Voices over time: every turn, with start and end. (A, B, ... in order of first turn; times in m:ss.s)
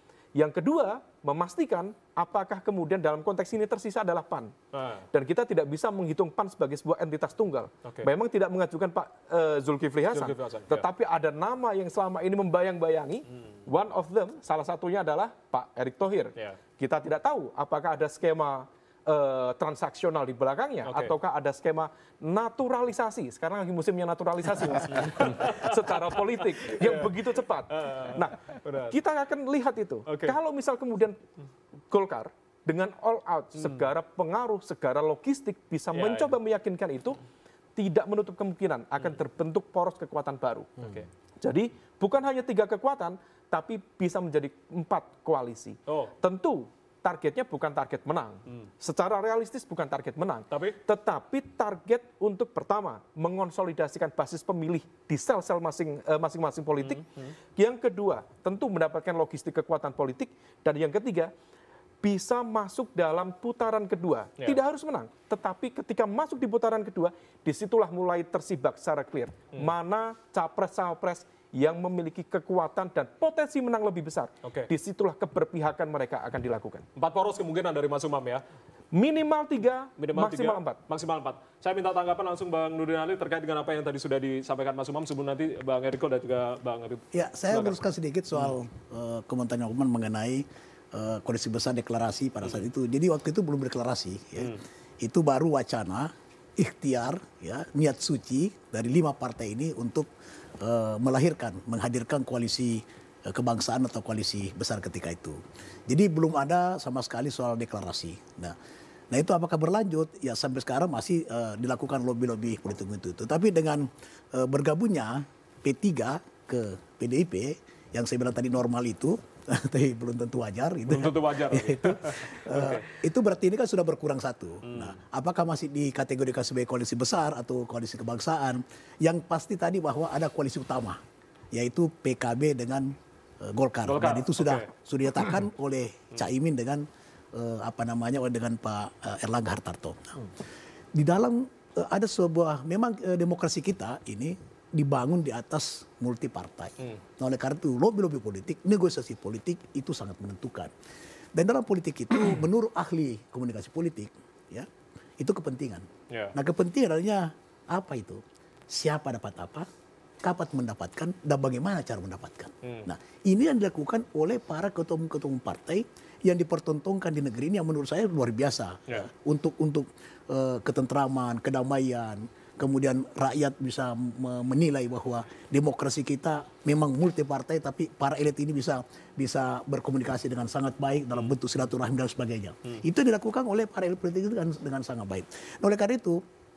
0:00.4-0:04.5 A
0:04.7-0:05.0 B
0:05.1-0:31.2 A
0:10.1-0:10.8 B
0:20.8-0:21.1 B
0:24.9-0:29.0 B
0:30.1-0:30.4 B
0:31.9-0:37.2 A
0:33.6-0:33.9 B
0:35.9-0:36.3 B
0:37.8-0:57.0 A
0:40.8-0:41.1 B
0:45.9-0:46.1 B
0:50.5-0:50.8 B
0:56.8-0:57.3 B
0:57.6-1:01.3 A
1:02.0-1:16.8 A
1:14.4-1:14.7 B
1:17.0-1:18.4 B
1:18.9-1:20.8 A
1:20.0-1:27.8 B
1:27.1-1:40.1 C
1:40.6-1:48.5 C
1:49.1-2:11.0 C
2:00.9-2:02.8 B
2:04.6-2:05.0 B
2:11.5-2:20.2 C
2:13.9-2:14.7 B
2:20.9-2:30.7 C
2:31.3-2:34.7 C
2:35.2-2:39.7 C
2:40.2-3:06.2 C